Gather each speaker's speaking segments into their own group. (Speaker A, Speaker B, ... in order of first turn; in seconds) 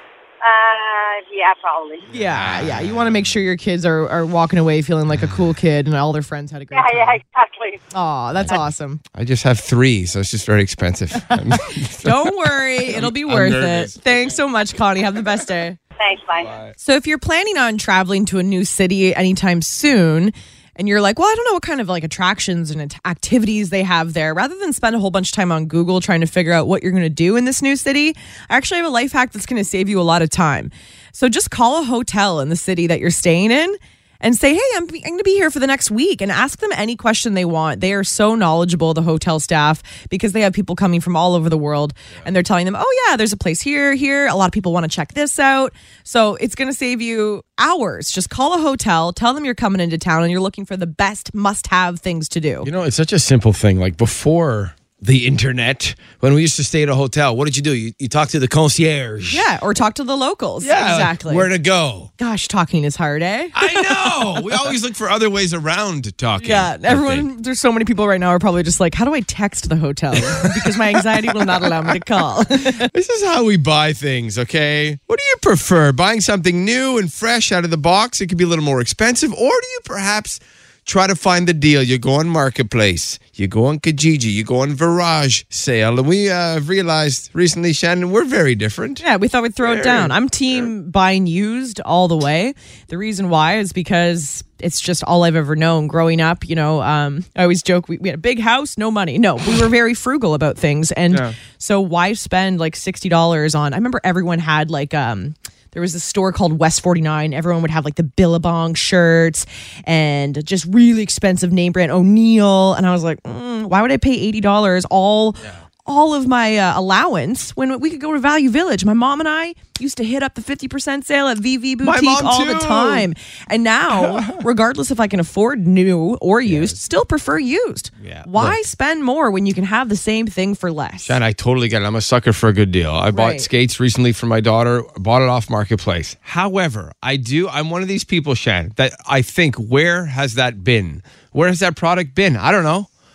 Speaker A: 0.4-2.1, 6.7-7.8, 16.0-16.5
Speaker B: 2.1-7.2, 7.9-9.0, 12.0-15.8, 16.8-52.7, 59.3-61.5, 62.2-64.5, 66.4-72.9, 89.0-131.2, 133.1-133.5
Speaker C: 2.1-3.3, 9.1-12.3, 12.8-14.3, 16.4-16.7, 52.6-59.4, 60.6-62.1, 63.5-67.3, 70.1-71.0, 72.6-89.0, 89.6-90.7, 101.1-101.4, 121.8-123.1, 123.9-124.4, 126.4-126.8, 128.0-128.6, 131.0-142.9